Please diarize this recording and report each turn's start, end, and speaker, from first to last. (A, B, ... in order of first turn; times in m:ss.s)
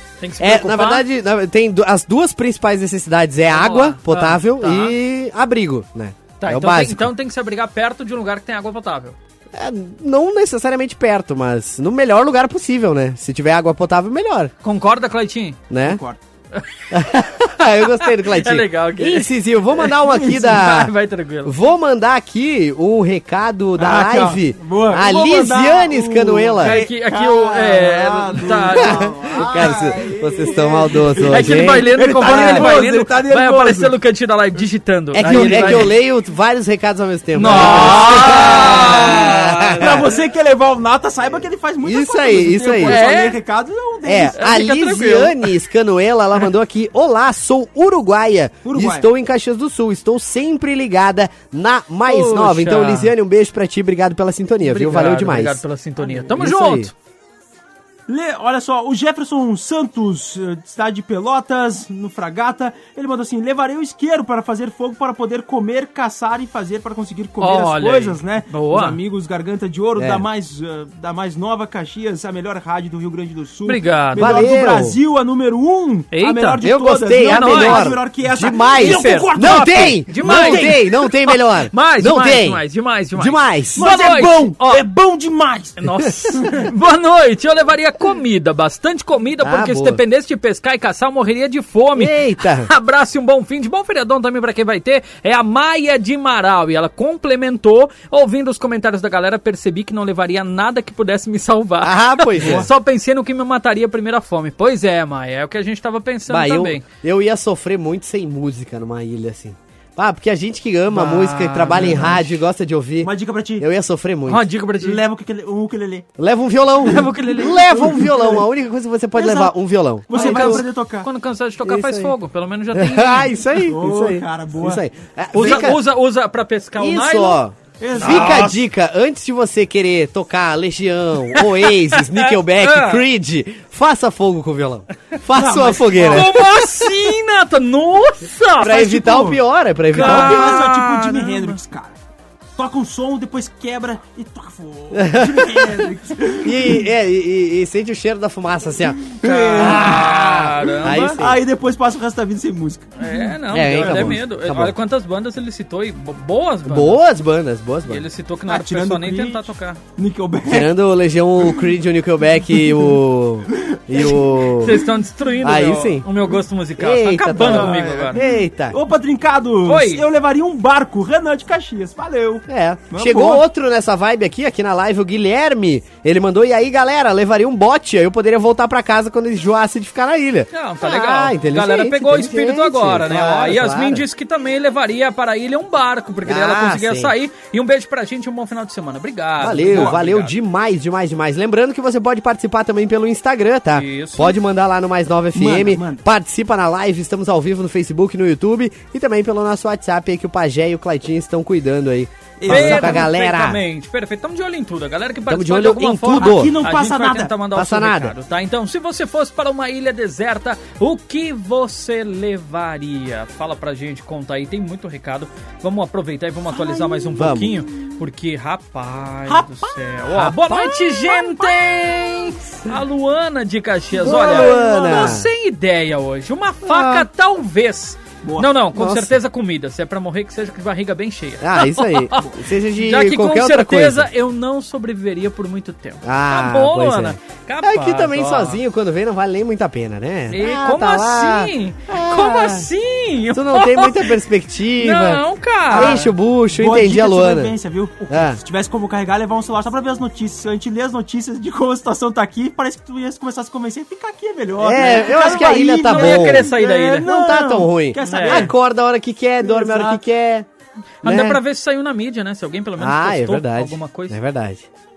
0:00.2-0:01.0 A
0:00.4-0:07.1 B
0:03.5-0:05.0 A
0:06.4-0:09.2 A
0:09.5-0:14.5 B
0:14.6-0:15.6 A
0:15.7-0:16.0 B
0:15.8-0:16.2 C
0:16.5-0:17.2 A
0:16.9-0:20.9 B
0:17.9-0:21.6 A
0:20.0-0:20.6 C
0:21.4-0:26.8 B
0:23.8-0:34.0 C
0:26.6-0:29.7 A
0:28.8-0:32.8 B
0:31.3-0:35.9 A
0:35.1-0:40.1 B
0:35.2-0:35.9 C
0:37.4-0:40.1 A
0:37.4-0:44.4 C
0:41.8-0:43.0 B
0:42.8-0:43.4 A
0:44.0-0:55.6 B
0:44.4-0:45.5 A
0:48.6-0:49.1 C
0:52.1-0:53.1 A
0:54.6-0:56.9 A
0:56.0-0:56.3 C
0:56.4-0:56.9 B
0:58.1-1:20.9 C
1:07.4-1:09.0 A
1:10.0-1:10.2 B
1:13.7-1:14.3 A
1:14.2-1:15.0 B
1:16.1-1:16.6 A
1:16.6-1:22.6 B
1:17.2-1:17.9 A
1:18.8-1:24.8 A
1:23.2-1:23.8 B
1:23.8-1:26.7 C
1:25.8-1:46.8 A
1:29.4-1:30.0 B
1:32.0-1:32.7 B
1:41.8-1:42.7 B
1:42.4-1:42.7 C
1:46.3-1:54.5 B
1:50.9-1:52.2 A
1:51.6-1:52.2 C
1:53.0-1:53.7 C
1:54.3-1:55.0 A
1:54.8-1:56.1 C
1:56.2-2:00.6 B
1:56.8-1:57.8 A
1:56.9-1:58.4 C
1:59.1-1:59.6 C
2:00.1-2:01.1 C
2:00.1-2:03.3 A
2:01.6-2:02.2 B
2:02.7-2:05.8 B
2:03.7-2:04.8 C
2:05.3-2:07.4 A
2:05.4-2:05.7 C
2:06.8-2:16.4 B
2:07.8-2:08.6 C
2:08.0-2:08.6 A
2:11.3-2:13.0 A
2:15.4-2:16.3 C
2:16.1-2:18.8 A
2:18.6-2:20.6 B
2:18.6-2:19.4 C
2:19.9-2:21.6 A
2:19.9-2:22.0 C
2:22.6-2:26.9 C
2:24.9-2:25.9 B
2:26.4-2:31.4 B
2:29.1-2:30.1 C
2:29.2-2:31.2 A
2:31.0-2:34.2 C
2:33.0-2:37.0 A
2:33.5-2:34.8 B
2:36.7-2:38.0 B
2:37.9-2:39.8 A
2:38.5-2:40.7 C
2:40.5-2:44.8 B
2:41.4-2:41.7 C
2:42.5-2:43.0 C
2:43.5-2:44.8 C
2:44.6-2:48.2 A
2:45.4-2:46.1 B
2:46.8-2:48.8 B
2:47.4-2:53.4 C
2:49.6-2:50.1 A
2:52.5-3:04.1 B
3:00.5-3:10.4 A
3:06.2-3:07.1 B
3:09.4-3:23.6 B
3:09.6-3:10.0 C
3:13.7-3:14.4 A
3:15.3-3:16.0 C
3:22.4-3:23.1 C
3:22.5-3:52.2 A
3:25.3-3:26.6 B
3:26.1-3:27.3 C
3:27.5-3:28.1 B
3:37.1-3:37.7 B
3:39.3-3:39.8 C
3:40.1-3:41.0 B
3:41.1-3:41.5 C
3:43.9-3:45.2 C
3:44.0-3:45.3 B
3:46.6-3:47.1 B
3:48.2-3:48.5 C
3:48.8-3:49.2 B
3:51.4-3:54.1 B
3:52.8-3:58.6 A
3:56.0-4:02.7 B
4:00.3-4:04.2 A
4:03.3-4:07.5 B
4:04.8-4:06.1 A
4:05.7-4:18.6 C
4:08.1-4:08.4 B
4:14.6-4:20.5 B
4:14.8-4:17.1 A
4:18.0-4:18.5 A
4:19.4-4:20.0 C
4:21.0-4:21.4 B
4:21.0-4:24.2 A
4:22.8-4:24.7 B